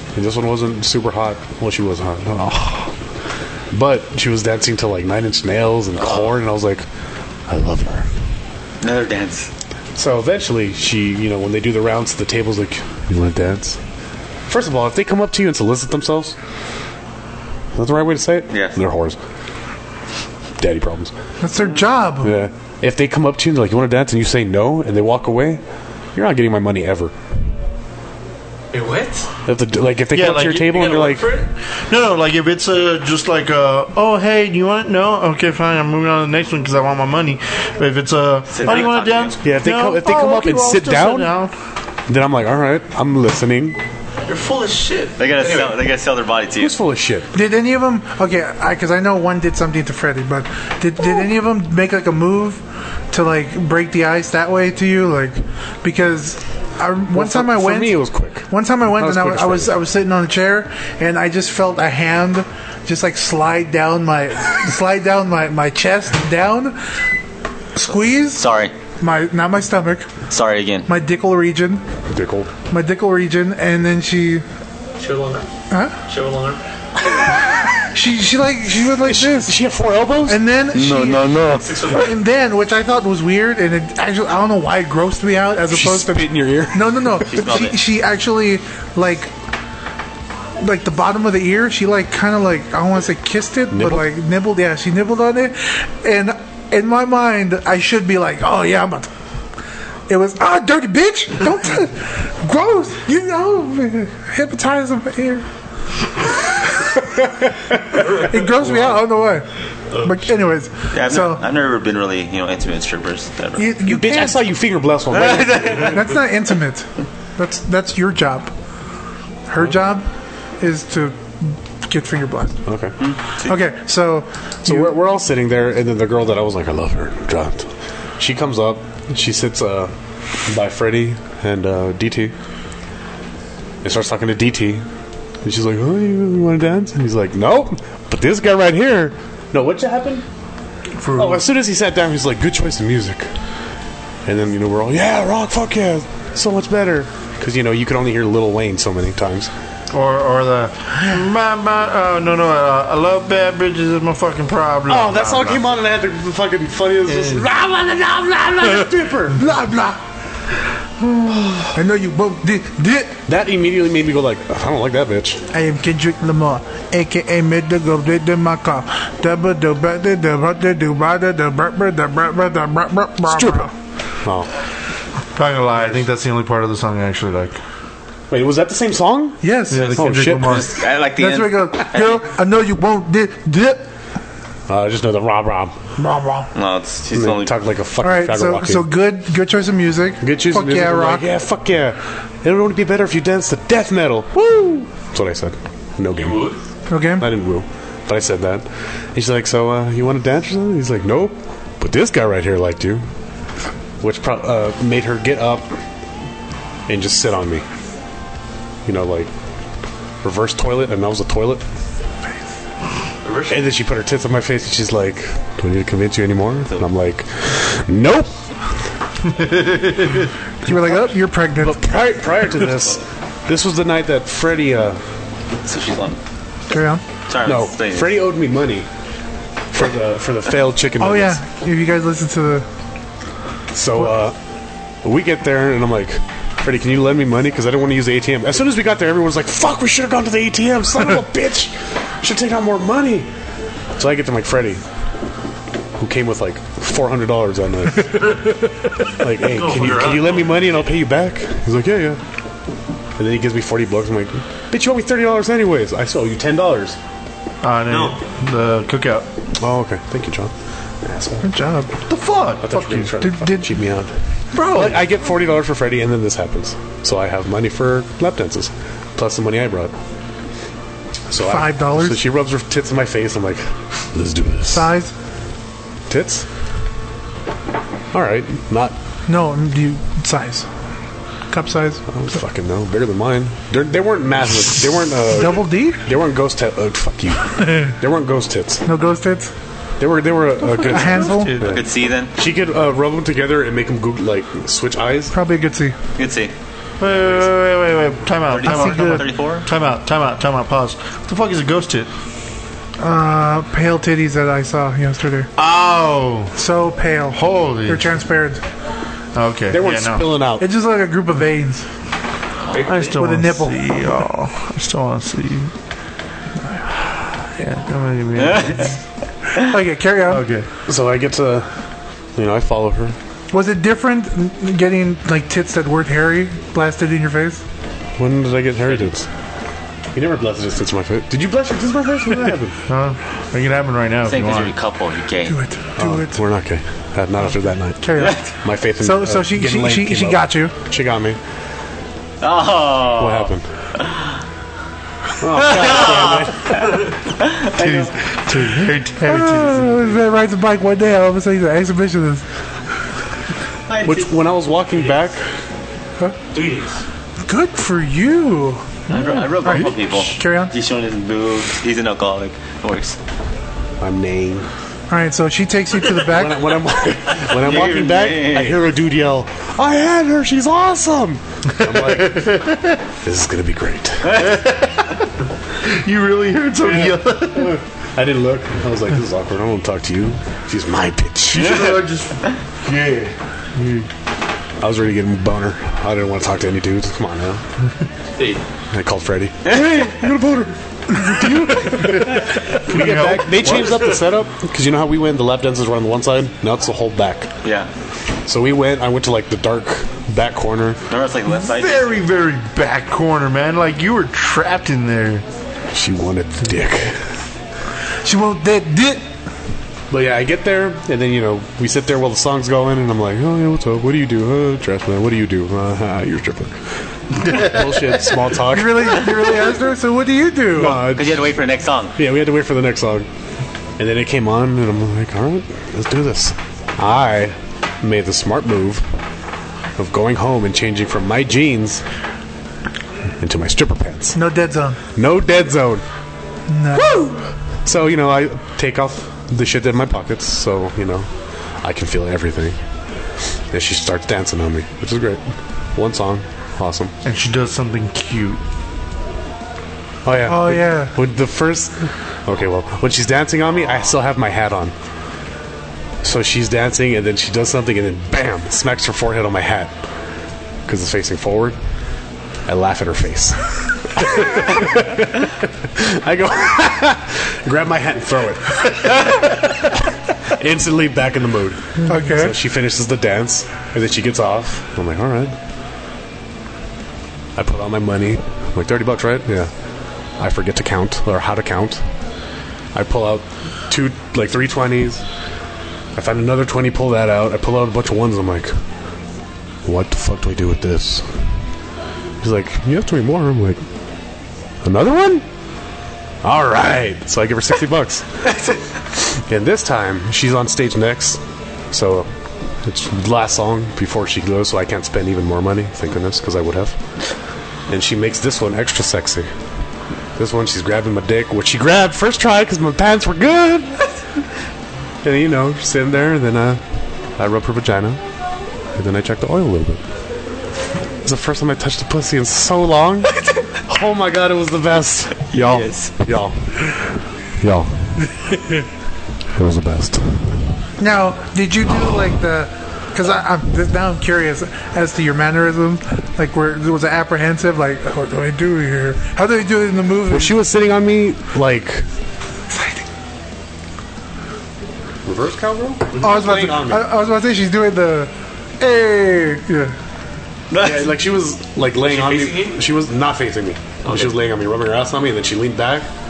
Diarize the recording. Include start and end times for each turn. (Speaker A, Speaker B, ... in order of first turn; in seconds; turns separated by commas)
Speaker A: 0.1-2.9, Speaker A: 3.7-6.8, Speaker A: 7.5-8.1, Speaker B: 8.8-9.5, Speaker A: 9.9-13.8, Speaker A: 14.5-16.4, Speaker A: 17.7-19.2, Speaker B: 18.5-18.8, Speaker A: 20.6-21.1, Speaker C: 21.4-22.3, Speaker A: 22.2-25.6, Speaker A: 26.1-27.2, Speaker D: 28.7-29.3, Speaker A: 29.5-31.3, Speaker E: 30.1-30.7, Speaker D: 30.6-31.5, Speaker E: 31.9-41.5, Speaker B: 38.5-39.4, Speaker D: 38.6-38.9, Speaker A: 39.4-41.3, Speaker A: 42.1-43.8, Speaker D: 44.3-45.9, Speaker B: 45.2-46.7, Speaker A: 46.6-47.3, Speaker C: 47.3-52.6, Speaker C: 53.1-66.8, Speaker A: 57.1-59.8, Speaker C: 67.8-68.5, Speaker B: 68.3-68.7, Speaker C: 69.0-70.1, Speaker B: 70.3-70.9, Speaker C: 70.9-71.8, Speaker A: 72.1-72.5, Speaker C: 72.7-74.5, Speaker D: 75.0-75.5, Speaker C: 75.7-76.0, Speaker D: 76.1-76.6, Speaker C: 77.9-79.6, Speaker A: 79.0-81.8, Speaker C: 80.3-81.3, Speaker D: 81.5-82.2, Speaker C: 81.9-89.3, Speaker A: 85.7-87.3, Speaker B: 87.3-87.8, Speaker C: 90.6-99.1, Speaker A: 93.7-94.1, Speaker C: 100.1-105.5, Speaker C: 107.9-109.5, Speaker C: 110.0-111.4, Speaker B: 110.9-113.7, Speaker C: 113.6-114.4, Speaker A: 113.8-116.1, Speaker B: 115.2-115.9, Speaker C: 115.8-118.5, Speaker C: 119.5-120.1, Speaker C: 120.6-122.6, Speaker A: 122.7-122.9, Speaker B: 123.0-123.5, Speaker C: 123.4-124.9, Speaker A: 124.7-129.9, Speaker A: 130.5-132.3, Speaker A: 133.8-134.8, Speaker A: 135.4-140.2, Speaker E: 141.0-141.4, Speaker A: 141.2-143.3, Speaker A: 144.2-149.5, Speaker E: 149.9-155.7, Speaker A: 154.9-159.4, Speaker E: 157.1-157.5, Speaker C: 159.4-160.0, Speaker C: 161.7-163.2, Speaker A: 163.3-165.4, Speaker C: 165.5-173.7, Speaker A: 173.2-173.7, Speaker A: 174.2-174.5, Speaker E: 175.3-177.6, Speaker A: 178.3-180.7, Speaker C: 179.4-180.0, Speaker E: 179.7-180.8, Speaker B: 180.4-182.2, Speaker C: 181.1-183.8, Speaker A: 184.7-185.8, Speaker C: 186.0-186.5, Speaker B: 186.5-187.5, Speaker A: 187.1-188.9, Speaker C: 188.0-191.3, Speaker A: 190.2-196.5, Speaker D: 196.1-196.6, Speaker C: 196.9-197.3, Speaker A: 197.2-203.0, Speaker A: 204.0-205.7, Speaker A: 206.9-207.7, Speaker A: 208.8-209.3, Speaker A: 210.2-211.6, Speaker D: 213.2-213.7, Speaker A: 213.5-218.3, Speaker E: 219.3-220.3, Speaker C: 220.7-221.8, Speaker A: 221.6-225.0, Speaker B: 225.7-226.2, Speaker C: 226.7-227.0, Speaker B: 227.3-228.2, Speaker A: 227.4-228.9, Speaker A: 229.7-231.4, Speaker C: 231.0-232.7, Speaker A: 233.7-234.4, Speaker A: 235.0-243.3, Speaker A: 244.0-244.8, Speaker A: 246.0-252.2, Speaker D: 249.4-250.8, Speaker A: 253.2-257.0, Speaker E: 257.6-259.3, Speaker D: 257.9-258.2, Speaker A: 259.6-261.5, Speaker C: 261.4-261.9, Speaker E: 262.1-263.1, Speaker A: 262.6-264.1, Speaker C: 263.2-263.7, Speaker E: 264.5-265.0, Speaker A: 264.6-269.9, Speaker A: 271.3-274.9, Speaker C: 271.4-272.2, Speaker C: 274.7-275.1, Speaker A: 276.1-276.5, Speaker A: 278.1-279.0, Speaker C: 279.3-280.7, Speaker C: 281.5-282.0, Speaker A: 282.1-288.8, Speaker C: 285.4-286.0, Speaker C: 288.9-289.5, Speaker A: 290.0-295.3, Speaker E: 290.7-291.8, Speaker C: 290.8-291.6, Speaker B: 291.6-292.3, Speaker C: 295.3-296.0, Speaker B: 296.2-296.5, Speaker E: 297.0-302.1, Speaker B: 298.5-299.7, Speaker C: 298.6-299.3, Speaker C: 303.0-305.5, Speaker E: 305.6-306.5, Speaker C: 306.6-308.6, Speaker E: 307.3-308.1, Speaker E: 309.4-310.3, Speaker A: 309.7-310.6, Speaker C: 310.6-311.9, Speaker D: 312.7-313.1, Speaker E: 312.8-315.7, Speaker C: 313.2-313.9, Speaker E: 317.4-318.9, Speaker C: 319.7-320.4, Speaker E: 320.3-320.7, Speaker A: 320.9-321.7, Speaker A: 322.4-323.2, Speaker C: 323.5-327.6, Speaker A: 328.2-329.3, Speaker A: 330.1-332.8, Speaker E: 332.9-334.8, Speaker B: 334.2-335.6, Speaker C: 335.5-336.4, Speaker A: 336.0-341.4, Speaker C: 338.0-338.4, Speaker B: 338.2-338.4, Speaker C: 339.0-340.7, Speaker B: 342.4-344.2, Speaker A: 343.2-343.7, Speaker A: 345.4-347.0, Speaker B: 345.6-347.7, Speaker E: 347.7-350.2, Speaker C: 349.2-352.4, Speaker B: 353.9-354.3, Speaker A: 354.0-355.4, Speaker D: 356.5-357.0, Speaker C: 357.5-358.8, Speaker E: 359.1-359.8, Speaker B: 359.1-363.2, Speaker C: 359.6-360.7, Speaker A: 364.0-364.7, Speaker C: 365.1-366.8, Speaker A: 366.2-372.6, Speaker B: 367.4-368.8, Speaker E: 371.8-373.0, Speaker A: 373.2-374.4, Speaker E: 374.3-375.2, Speaker E: 375.8-377.8, Speaker A: 376.8-381.8, Speaker E: 381.5-384.1, Speaker B: 381.6-381.9, Speaker A: 384.8-387.6, Speaker D: 388.4-388.6, Speaker A: 388.9-397.5, Speaker B: 389.7-390.1, Speaker E: 391.4-394.0, Speaker B: 397.6-397.9, Speaker A: 398.5-401.0, Speaker B: 401.1-402.1, Speaker E: 401.5-405.4, Speaker A: 405.9-407.3, Speaker C: 408.2-409.2, Speaker A: 410.1-419.5, Speaker C: 418.6-421.1, Speaker A: 420.7-421.5, Speaker B: 420.9-422.2, Speaker A: 422.2-423.3, Speaker A: 424.0-429.1, Speaker A: 430.0-432.0, Speaker A: 433.4-434.4, Speaker C: 434.3-435.0, Speaker A: 435.1-436.1, Speaker C: 436.7-437.4, Speaker A: 437.0-437.3, Speaker A: 437.9-441.3, Speaker A: 441.8-442.8, Speaker A: 443.7-447.1, Speaker E: 447.2-448.6, Speaker A: 450.2-454.9, Speaker C: 450.5-451.1, Speaker A: 456.2-459.9, Speaker A: 460.9-461.8, Speaker A: 462.7-475.6, Speaker C: 472.1-472.6, Speaker A: 477.6-479.7, Speaker A: 480.4-482.0, Speaker A: 482.9-485.2, Speaker A: 486.1-488.7, Speaker A: 489.9-491.4, Speaker A: 492.4-493.8, Speaker A: 494.8-495.5, Speaker A: 496.4-498.3, Speaker A: 499.1-502.3, Speaker A: 502.8-507.0, Speaker A: 507.9-509.5, Speaker A: 510.4-514.0, Speaker A: 515.2-516.8, Speaker A: 517.4-518.2, Speaker A: 519.0-520.0, Speaker A: 521.2-528.1, Speaker B: 525.5-526.1, Speaker A: 529.5-530.6, Speaker C: 531.0-540.6, Speaker A: 540.3-542.1, Speaker C: 542.7-543.0, Speaker A: 545.2-547.1, Speaker C: 546.2-549.9, Speaker A: 550.7-556.1, Speaker D: 552.0-552.8, Speaker D: 554.0-554.3